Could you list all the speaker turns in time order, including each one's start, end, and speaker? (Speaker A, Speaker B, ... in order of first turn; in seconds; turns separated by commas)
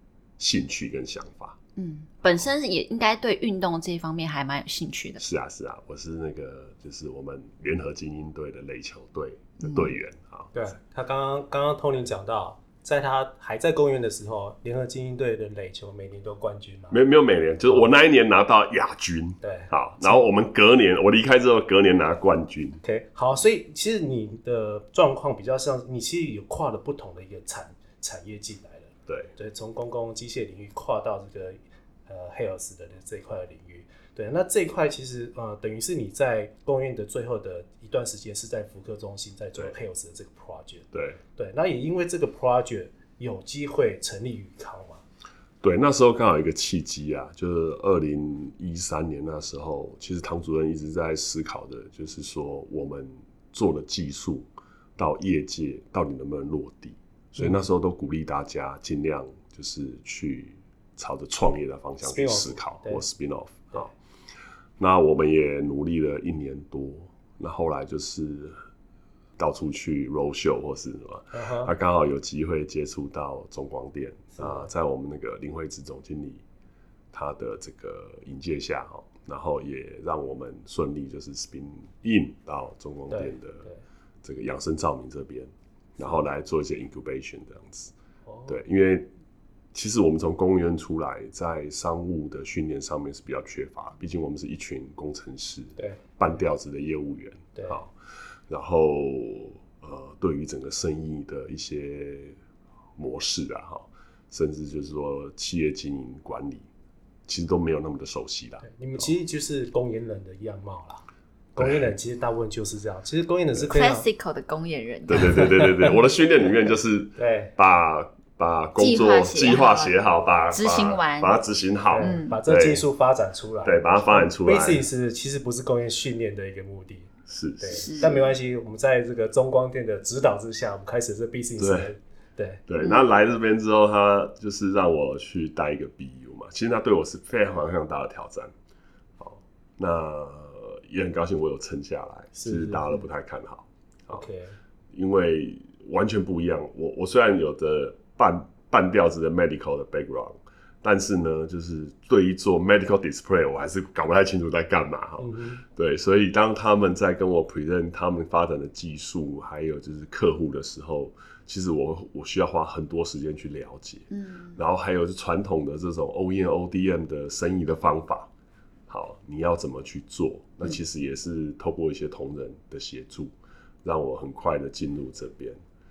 Speaker A: 0.4-1.6, Speaker B: 1.8-5.2, Speaker A: 5.2-10.7, Speaker B: 9.6-9.9, Speaker C: 10.5-17.0, Speaker A: 16.9-22.8, Speaker C: 19.4-20.2, Speaker C: 22.8-45.0, Speaker A: 29.1-29.3, Speaker A: 40.9-41.2, Speaker A: 45.6-63.9, Speaker C: 62.0-63.0, Speaker A: 64.8-68.6, Speaker A: 69.4-76.4, Speaker C: 71.3-71.7, Speaker C: 74.3-74.7, Speaker A: 77.1-83.7, Speaker C: 83.1-83.8, Speaker A: 84.2-87.9, Speaker C: 88.3-88.5, Speaker A: 88.5-89.1, Speaker A: 89.7-97.9, Speaker A: 98.5-102.4, Speaker A: 103.0-106.7, Speaker A: 107.3-109.0, Speaker C: 108.6-111.0, Speaker C: 111.5-114.1, Speaker A: 111.6-111.9, Speaker B: 113.7-115.7, Speaker A: 115.1-122.9, Speaker C: 115.4-115.7, Speaker C: 117.2-117.5, Speaker B: 118.8-120.0, Speaker B: 120.5-121.4, Speaker C: 121.9-132.6, Speaker B: 122.0-122.4, Speaker A: 123.6-124.9, Speaker A: 127.3-127.9, Speaker B: 127.7-128.3, Speaker A: 131.6-131.9, Speaker A: 132.7-138.5, Speaker A: 139.2-144.2, Speaker C: 142.4-143.0, Speaker C: 144.1-144.6, Speaker A: 144.9-168.3, Speaker C: 155.2-155.6, Speaker B: 164.1-164.6, Speaker A: 168.9-175.6